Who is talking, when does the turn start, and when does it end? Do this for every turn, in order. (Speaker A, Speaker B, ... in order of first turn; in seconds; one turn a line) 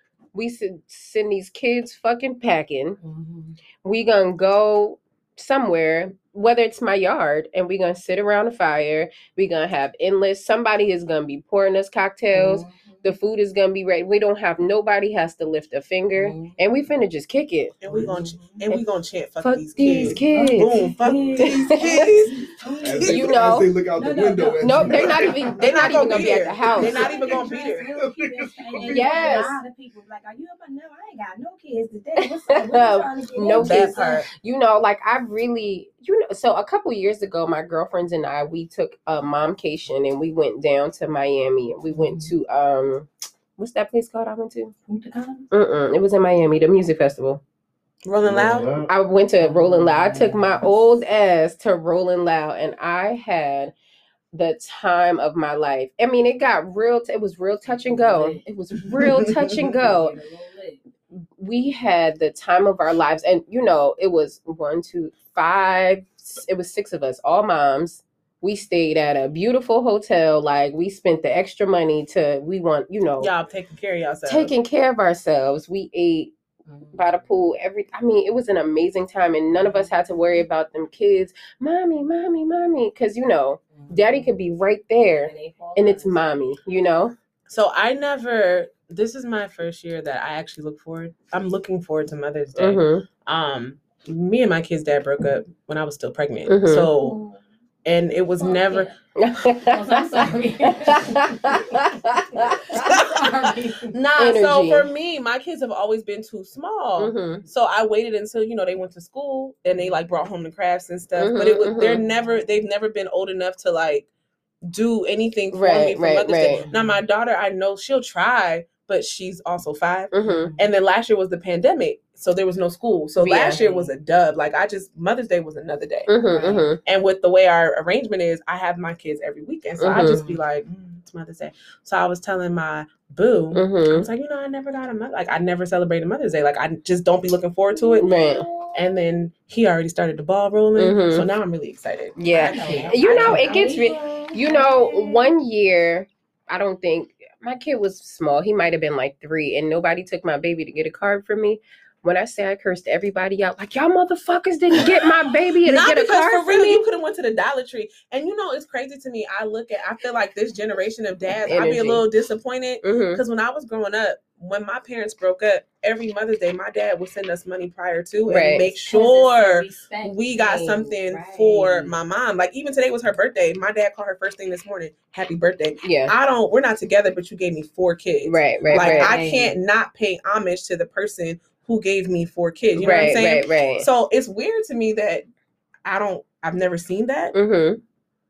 Speaker A: 0.3-3.0
Speaker B: 3.0-3.6
Speaker A: 3.8-18.1
Speaker B: 12.3-13.2
Speaker B: 16.1-16.6
Speaker C: 17.8-23.3
Speaker B: 17.8-18.7
Speaker A: 19.4-20.8
Speaker B: 19.8-23.2
Speaker A: 21.4-22.1
Speaker D: 22.8-27.4
Speaker A: 23.1-23.7
Speaker B: 24.0-25.9
Speaker A: 24.6-27.1
Speaker C: 25.5-27.9
Speaker B: 26.6-34.2
Speaker D: 27.9-29.4
Speaker A: 28.8-29.6
Speaker A: 32.2-44.7
Speaker C: 33.5-34.2
Speaker B: 41.9-42.3
Speaker B: 44.9-45.5
Speaker A: 45.5-47.4
Speaker C: 48.0-48.8
Speaker D: 48.2-48.9
Speaker A: 48.9-53.7
Speaker B: 49.4-50.8
Speaker A: 54.3-60.1
Speaker B: 57.6-58.4
Speaker C: 58.9-59.4
Speaker B: 59.5-60.8
Speaker A: 61.1-73.3
Speaker C: 73.2-74.5
Speaker A: 74.3-76.3
Speaker B: 76.7-77.0
Speaker A: 76.9-87.1
Speaker B: 79.6-80.1
Speaker B: 83.7-84.3
Speaker B: 85.2-86.2
Speaker C: 87.5-97.2
Speaker A: 92.6-93.0
Speaker A: 96.5-96.9
Speaker B: 96.9-97.4
Speaker C: 97.8-98.9
Speaker B: 98.4-99.0
Speaker A: 99.2-103.0
Speaker B: 99.6-103.9
Speaker C: 102.8-103.4
Speaker C: 103.9-114.1
Speaker A: 104.2-104.9
Speaker A: 107.0-107.4
Speaker B: 109.7-110.0
Speaker A: 111.2-112.0
Speaker B: 112.0-112.3
Speaker C: 114.6-138.1
Speaker A: 115.5-116.6
Speaker B: 116.5-117.0
Speaker A: 120.1-120.5
Speaker B: 120.2-120.6
Speaker A: 123.2-123.6
Speaker B: 123.5-123.9
Speaker A: 126.1-126.8
Speaker B: 126.2-126.7
Speaker A: 129.8-130.2
Speaker B: 130.0-130.4
Speaker A: 133.5-134.1
Speaker B: 137.7-139.0
Speaker A: 138.0-138.4
Speaker C: 138.7-143.5
Speaker A: 140.8-141.3
Speaker A: 142.2-156.8
Speaker B: 142.4-145.3
Speaker C: 155.6-185.3
Speaker A: 161.5-162.1
Speaker A: 162.8-163.2
Speaker A: 168.3-168.7
Speaker B: 168.8-171.9
Speaker A: 175.8-176.1
Speaker A: 178.2-179.2
Speaker B: 178.7-179.5
Speaker A: 182.8-183.9
Speaker C: 185.8-187.3
Speaker A: 187.3-187.8